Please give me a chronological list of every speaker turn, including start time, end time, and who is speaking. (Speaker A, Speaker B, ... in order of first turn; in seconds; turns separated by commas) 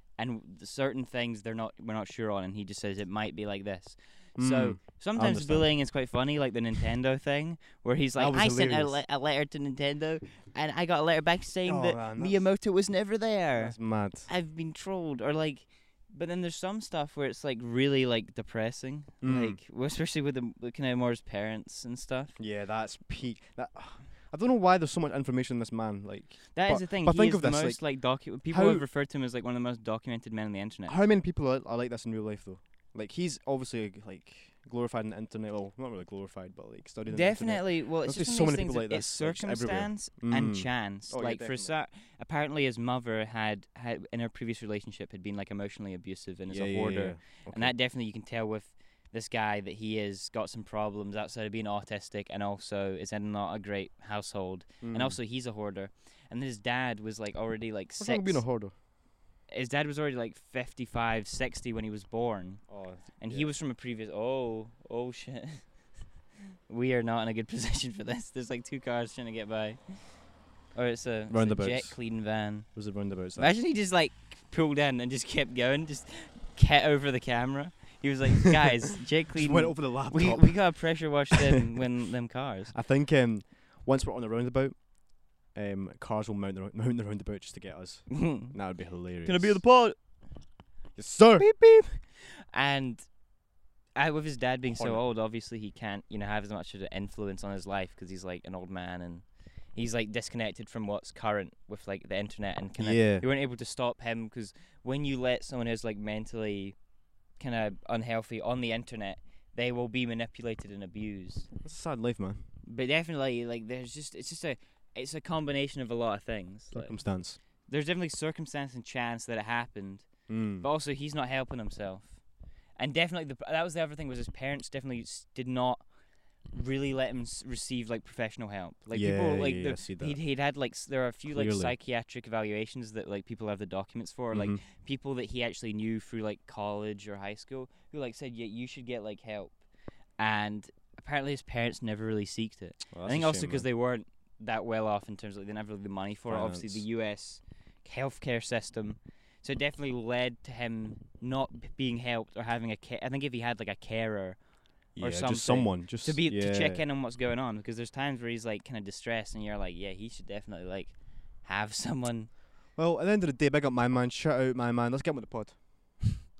Speaker A: 0.1-22.4, Speaker B: 4.3-6.0, Speaker B: 8.2-9.0, Speaker B: 11.6-12.5, Speaker B: 13.6-14.3, Speaker B: 19.2-19.6, Speaker B: 22.4-28.9, Speaker A: 26.5-31.0, Speaker B: 30.9-41.7, Speaker A: 37.1-58.5, Speaker B: 46.5-47.7, Speaker B: 54.8-55.2, Speaker B: 58.0-58.7, Speaker A: 59.5-66.0, Speaker B: 62.7-63.5, Speaker A: 66.7-82.7, Speaker B: 71.3-73.5, Speaker B: 79.3-81.4, Speaker B: 82.7-89.7, Speaker A: 88.1-90.3, Speaker B: 90.9-91.5, Speaker A: 91.4-111.5, Speaker B: 94.7-95.0, Speaker B: 102.8-103.2, Speaker B: 111.6-112.4, Speaker A: 112.7-139.6, Speaker B: 116.7-117.4, Speaker B: 120.3-120.7, Speaker B: 128.9-130.2, Speaker B: 131.3-131.7, Speaker B: 134.3-134.6, Speaker A: 140.2-162.3, Speaker B: 142.9-143.7, Speaker B: 146.3-146.8, Speaker B: 154.9-156.8, Speaker B: 162.7-166.1